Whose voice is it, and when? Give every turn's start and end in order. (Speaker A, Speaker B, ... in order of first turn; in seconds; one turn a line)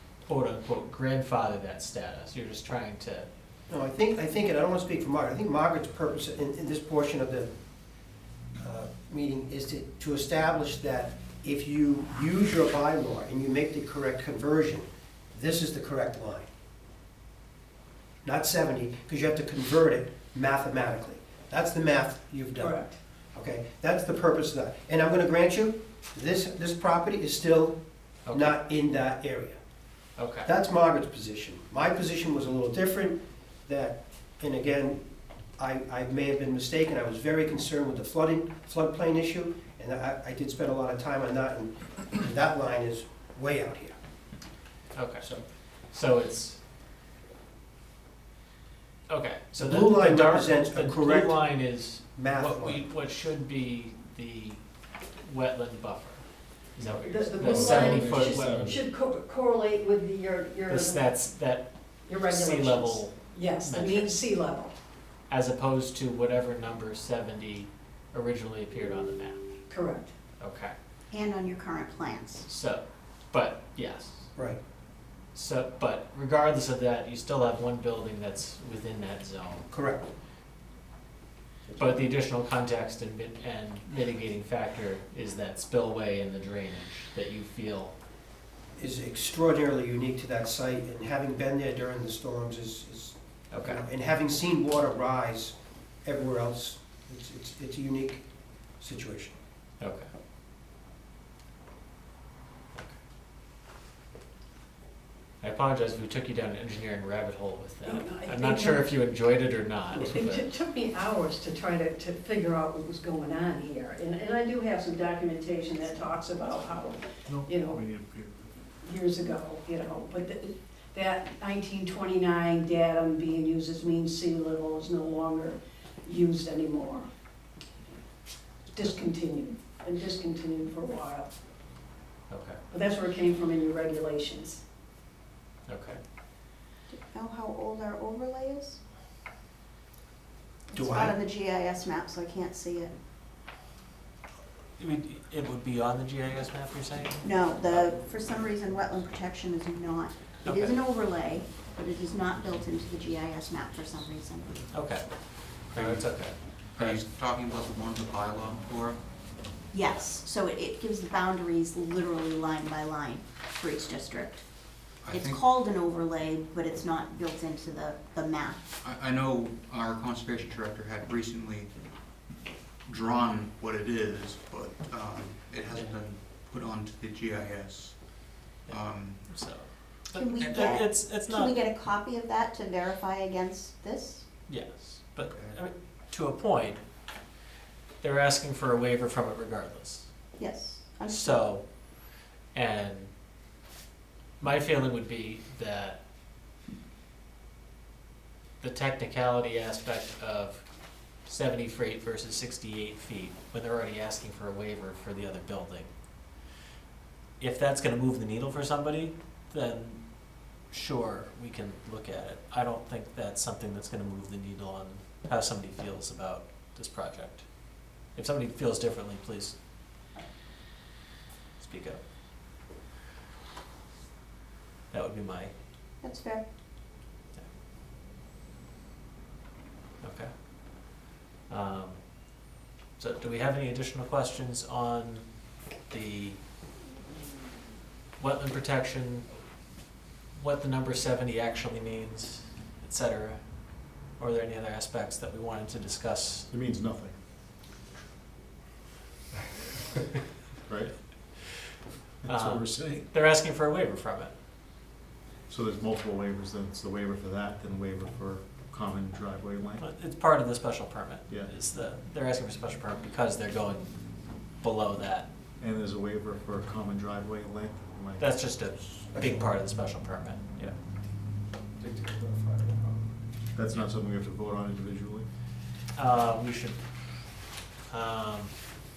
Speaker A: 0.3-3.2
Speaker B: 3.7-7.5
Speaker B: 8.6-16.5
Speaker B: 18.2-22.8
Speaker C: 22.6-23.0
Speaker B: 23.3-27.8
Speaker A: 28.2-28.5
Speaker B: 28.3-29.6
Speaker A: 30.2-30.5
Speaker B: 30.4-35.0
Speaker B: 35.6-43.9
Speaker A: 44.9-45.3
Speaker B: 45.2-45.4
Speaker A: 45.8-46.6
Speaker A: 49.1-54.6
Speaker B: 49.5-51.5
Speaker B: 52.1-52.9
Speaker A: 55.2-56.2
Speaker A: 56.8-58.8
Speaker D: 56.8-58.8
Speaker C: 57.0-61.0
Speaker A: 60.7-64.2
Speaker C: 62.0-64.7
Speaker A: 65.3-69.4
Speaker C: 69.7-70.1
Speaker A: 70.4-70.7
Speaker E: 71.1-72.5
Speaker A: 72.4-74.3
Speaker A: 75.3-79.7
Speaker B: 79.7-80.1
Speaker B: 81.7-82.1
Speaker A: 81.8-88.0
Speaker B: 88.8-98.2
Speaker A: 93.5-93.8
Speaker B: 98.8-99.4
Speaker A: 99.8-100.1
Speaker A: 105.4-110.5
Speaker C: 107.8-108.9
Speaker C: 110.0-117.8
Speaker D: 117.3-118.4
Speaker C: 118.8-127.1
Speaker C: 128.7-131.3
Speaker A: 132.3-132.6
Speaker C: 132.7-134.6
Speaker A: 135.7-136.0
Speaker E: 136.9-138.8
Speaker E: 140.7-143.0
Speaker B: 140.7-141.2
Speaker A: 144.8-147.8
Speaker E: 147.2-154.6
Speaker A: 150.4-150.8
Speaker A: 154.7-157.0
Speaker F: 155.7-156.0
Speaker F: 156.7-159.0
Speaker E: 159.7-164.4
Speaker F: 165.0-165.4
Speaker E: 165.1-168.6
Speaker F: 168.8-171.7
Speaker F: 172.8-179.5
Speaker A: 178.7-181.5
Speaker E: 180.1-184.2
Speaker F: 180.3-180.8
Speaker A: 184.5-186.8
Speaker F: 185.3-185.6
Speaker A: 188.0-190.1
Speaker E: 190.4-191.5
Speaker A: 191.1-191.7
Speaker A: 192.5-193.1
Speaker A: 194.4-196.0
Speaker A: 198.6-200.6
Speaker A: 201.2-205.9
Speaker A: 207.4-210.0
Speaker A: 210.7-217.5
Speaker A: 218.1-219.6
Speaker A: 221.6-222.0
Speaker A: 224.9-225.5
Speaker E: 226.0-226.4
Speaker A: 230.0-230.3
Speaker A: 231.5-232.0
Speaker A: 233.0-235.2
Speaker A: 235.9-236.4
Speaker A: 238.2-239.2
Speaker A: 240.3-246.5
Speaker D: 246.5-247.2
Speaker D: 250.7-251.3
Speaker D: 252.2-253.1
Speaker A: 252.3-254.3
Speaker D: 255.5-259.8
Speaker A: 259.8-263.9
Speaker A: 264.6-265.3
Speaker D: 265.6-268.4
Speaker A: 268.2-270.8
Speaker B: 269.1-269.5
Speaker B: 271.8-273.1
Speaker D: 273.5-275.3
Speaker A: 275.9-276.8
Speaker A: 277.9-278.5